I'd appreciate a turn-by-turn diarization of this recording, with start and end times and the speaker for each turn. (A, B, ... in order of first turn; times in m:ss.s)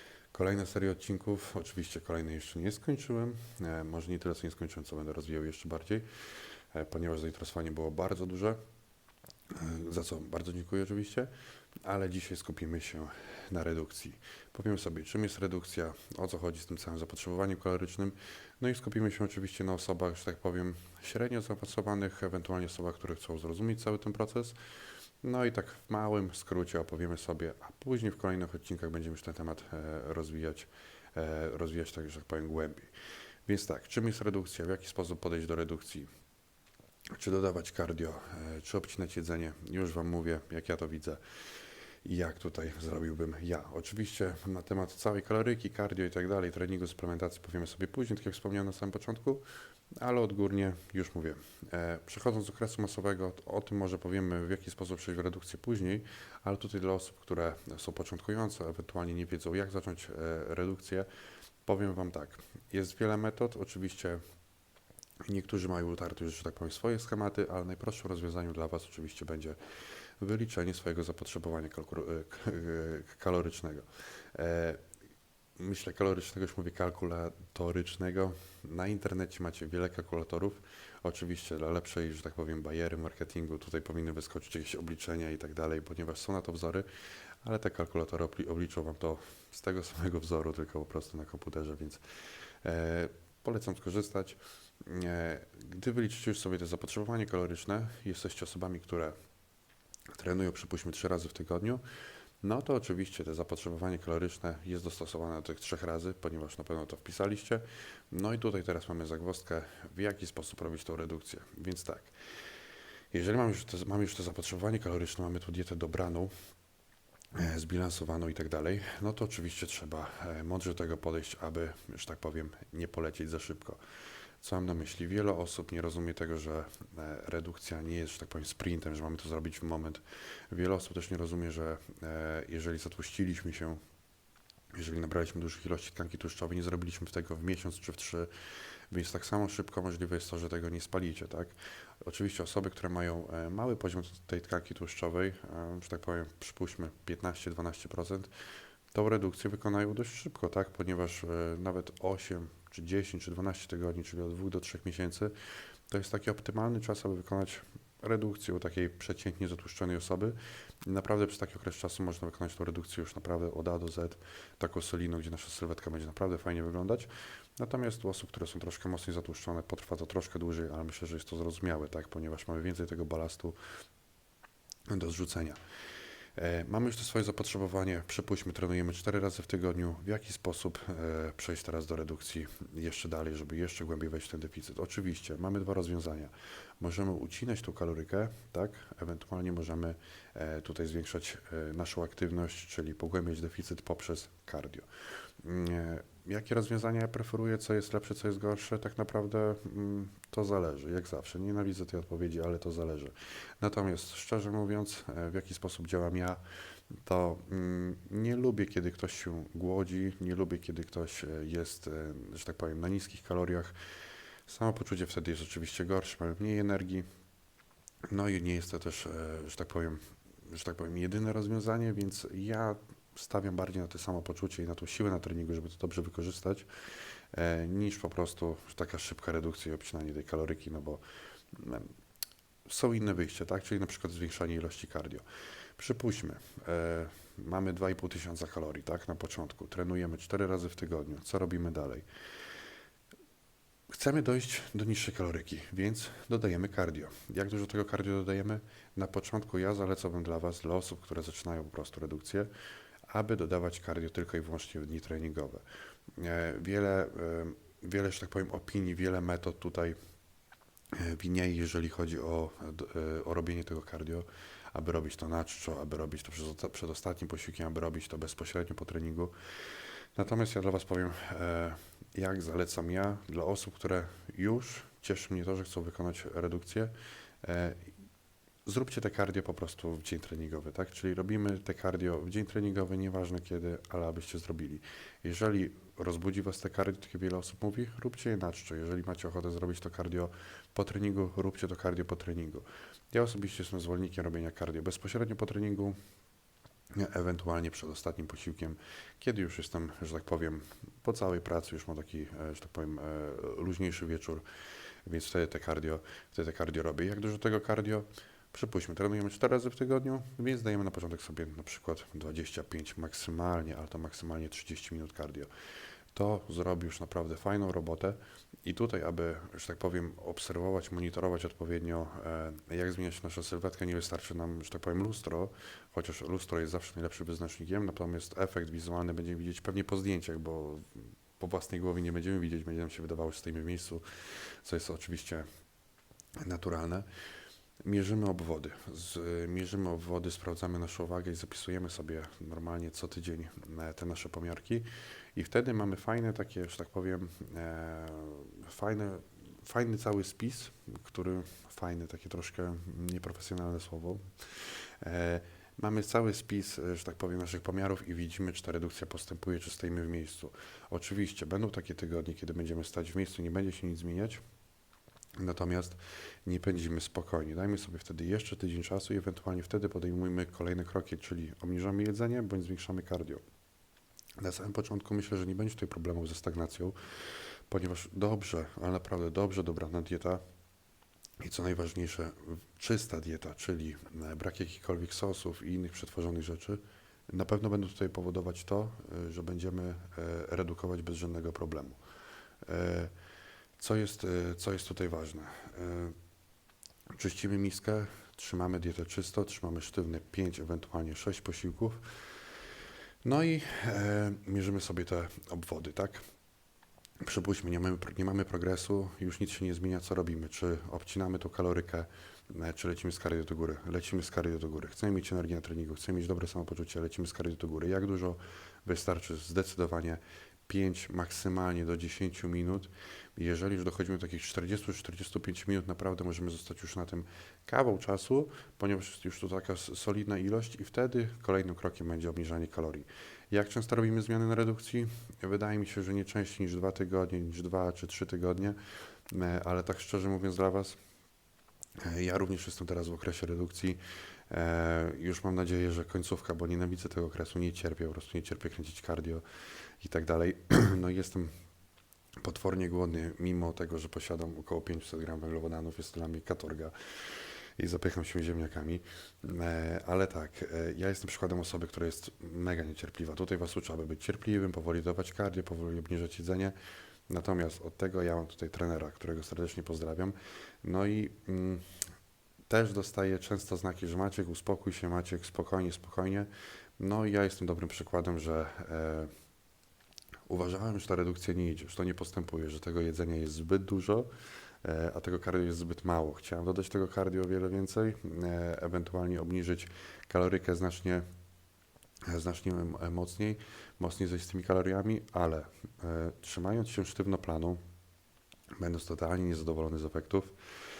0:00.3-0:06.1 A
0:06.7-0:08.6 A
0:09.5-0:11.3 A
0:11.8-0:24.6 A
0:25.2-0:32.9 A
0:33.5-0:36.1 A
0:37.1-0:41.2 A
0:42.0-0:49.4 A
0:50.0-1:01.1 A
1:01.6-1:04.2 A
1:05.2-1:09.6 A
1:10.2-1:14.8 A
1:15.6-1:26.9 A
1:27.4-1:32.0 A
1:32.6-1:39.2 A
1:40.1-1:41.8 A
1:42.4-1:52.1 A
1:53.1-1:56.3 A
1:57.3-2:03.8 A
2:04.4-2:13.8 A
2:14.7-2:18.3 A
2:18.9-2:28.3 A
2:28.9-2:35.3 A
2:35.9-2:53.6 A
2:54.9-2:55.6 A
2:56.4-3:14.9 A
3:15.4-3:26.4 A
3:27.0-3:33.8 A
3:34.5-3:37.1 A
3:38.1-3:46.7 A
3:47.3-3:51.9 A
3:52.7-3:55.2 A
3:55.8-4:02.1 A
4:03.9-4:12.5 A
4:13.1-4:15.6 A
4:16.2-4:20.0 A
4:20.9-4:29.3 A
4:30.2-4:37.9 A
4:38.7-4:56.0 A
4:56.9-5:04.4 A
5:05.1-5:15.5 A
5:16.1-5:35.5 A
5:36.4-5:37.1 A
5:37.8-6:04.4 A
6:05.4-6:13.4 A
6:14.4-6:17.0 A
6:17.7-6:20.4 A
6:21.4-6:32.0 A
6:32.6-6:33.1 A
6:33.8-6:36.2 A
6:37.1-6:42.1 A
6:43.2-6:46.2 A
6:47.2-7:21.0 A
7:22.0-7:29.4 A
7:30.0-7:31.6 A
7:32.4-7:46.8 A
7:47.3-7:51.8 A
7:52.7-7:59.3 A
8:00.5-8:04.3 A
8:04.8-8:11.2 A
8:12.3-8:17.8 A
8:18.8-8:20.6 A